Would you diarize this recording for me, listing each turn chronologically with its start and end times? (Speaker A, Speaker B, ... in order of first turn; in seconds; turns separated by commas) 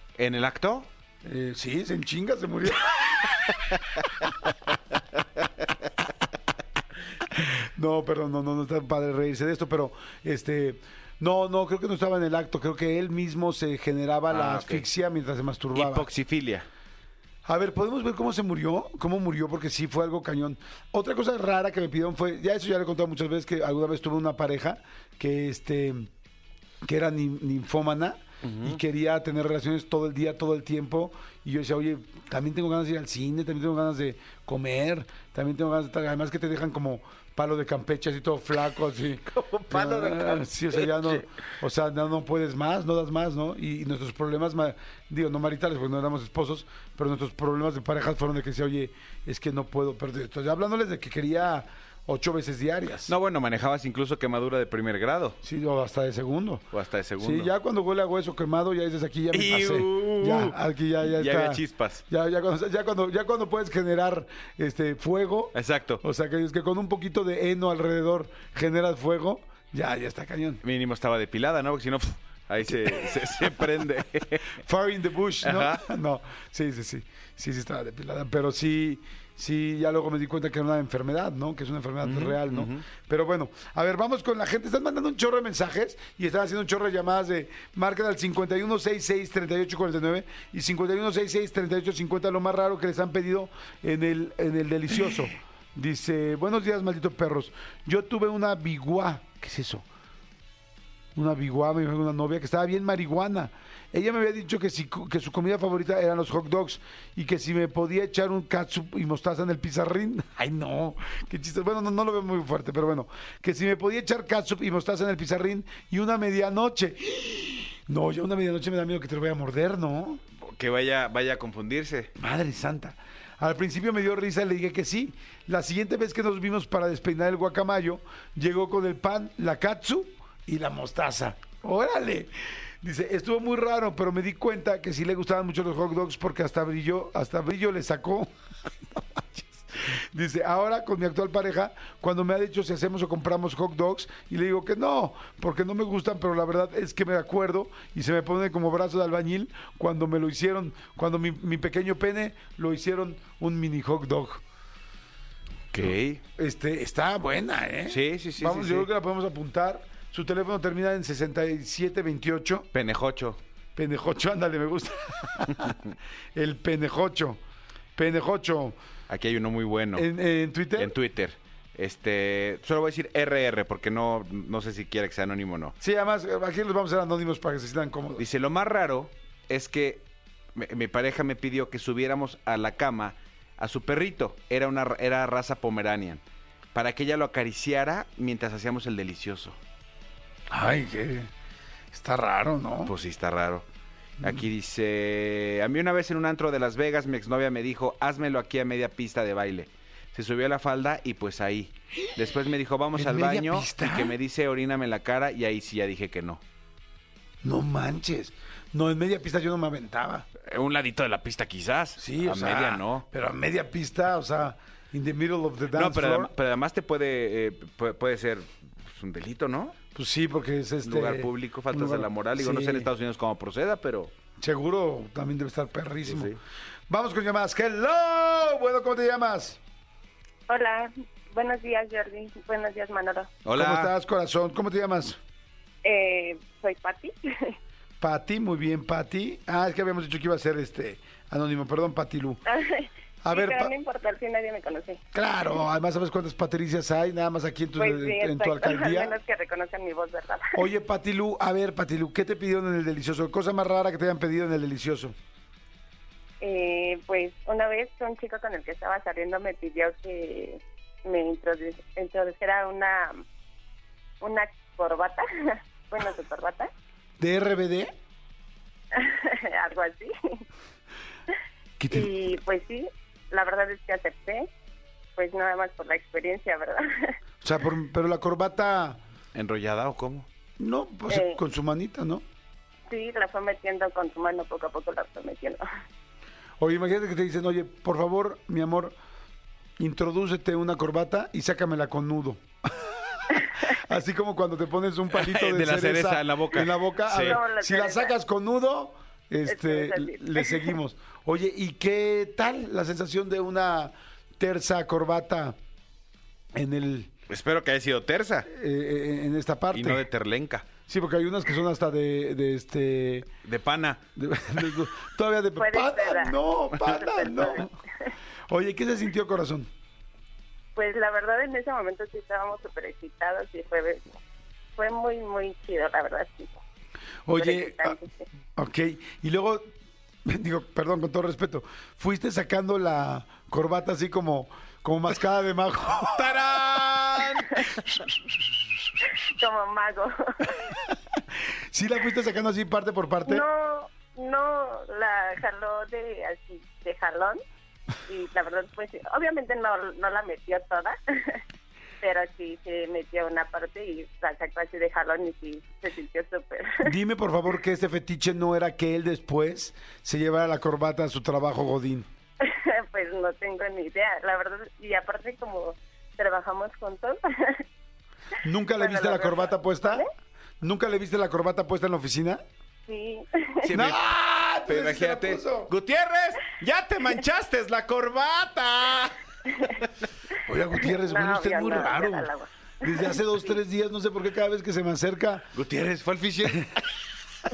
Speaker A: 0.2-0.9, Speaker B: 1.2-3.4, Speaker B: 7.4-16.1, Speaker A: 14.3-14.9, Speaker A: 15.7-16.7, Speaker B: 17.5-26.1, Speaker B: 26.8-53.1, Speaker A: 28.4-28.8, Speaker A: 39.3-41.2, Speaker A: 53.1-55.4, Speaker B: 55.4-56.7, Speaker A: 56.7-57.5, Speaker B: 57.2-70.6, Speaker A: 59.3-62.0, Speaker A: 65.5-66.0, Speaker A: 70.6-74.6, Speaker B: 72.7-73.2, Speaker B: 74.6-99.9, Speaker A: 75.4-75.8, Speaker A: 82.0-82.8, Speaker B: 101.2-120.2, Speaker A: 120.4-122.1, Speaker B: 122.2-138.3, Speaker B: 138.9-154.4, Speaker A: 155.7-156.2, Speaker B: 155.8-162.7, Speaker A: 157.9-158.9, Speaker A: 162.7-163.4, Speaker B: 163.8-167.4, Speaker B: 168.0-168.8, Speaker A: 169.1-170.1, Speaker B: 169.9-170.9, Speaker A: 170.8-175.8, Speaker B: 175.8-178.2, Speaker A: 178.2-186.2, Speaker A: 186.7-189.6, Speaker B: 190.5-191.3, Speaker B: 191.9-192.9, Speaker A: 192.8-193.7, Speaker A: 194.2-206.4, Speaker B: 202.9-204.2, Speaker B: 207.4-210.3, Speaker A: 210.4-213.1, Speaker B: 212.0-216.3, Speaker A: 215.7-219.8, Speaker B: 219.9-222.9, Speaker A: 220.8-224.1, Speaker B: 224.4-226.4, Speaker A: 226.0-226.4, Speaker B: 226.9-229.6, Speaker C: 230.5-233.3, Speaker A: 233.4-233.9, Speaker B: 233.5-235.2, Speaker C: 235.8-237.5, Speaker B: 238.0-242.4, Speaker C: 242.5-245.0, Speaker B: 243.2-243.7, Speaker B: 245.1-249.2, Speaker C: 247.8-250.5, Speaker B: 250.6-255.2, Speaker C: 256.4-263.2, Speaker C: 264.2-266.7, Speaker B: 267.2-267.9, Speaker C: 268.9-270.4, Speaker B: 271.8-272.1, Speaker C: 271.9-274.5, Speaker C: 275.2-277.1, Speaker B: 277.4-279.0, Speaker A: 279.4-280.3, Speaker B: 280.6-282.2, Speaker C: 281.1-281.4, Speaker C: 282.9-285.6, Speaker B: 286.6-289.0, Speaker B: 289.8-292.4, Speaker B: 293.7-305.6, Speaker A: 295.1-297.4, Speaker C: 297.2-298.1, Speaker C: 299.5-300.8, Speaker B: 306.6-307.1, Speaker A: 307.3-308.5, Speaker B: 308.5-310.0, Speaker A: 309.7-310.7, Speaker B: 310.9-313.3, Speaker A: 313.4-314.0, Speaker B: 314.2-317.8, Speaker C: 315.6-318.1, Speaker B: 318.5-319.7, Speaker C: 320.8-324.1, Speaker C: 324.8-326.6, Speaker B: 327.3-328.0, Speaker C: 327.3-328.2, Speaker B: 328.6-329.7, Speaker B: 330.3-336.3, Speaker A: 336.0-338.0, Speaker C: 339.2-340.6, Speaker B: 341.7-343.4, Speaker C: 343.2-347.4, Speaker C: 348.1-351.4, Speaker C: 352.0-356.9, Speaker B: 356.8-362.1, Speaker C: 362.4-367.6, Speaker B: 368.4-370.1, Speaker C: 368.7-370.1, Speaker B: 370.6-372.4, Speaker C: 372.9-373.7, Speaker A: 373.6-379.1, Speaker B: 373.7-375.7, Speaker B: 380.5-382.3, Speaker C: 380.8-383.5, Speaker B: 382.8-385.5, Speaker A: 385.5-386.8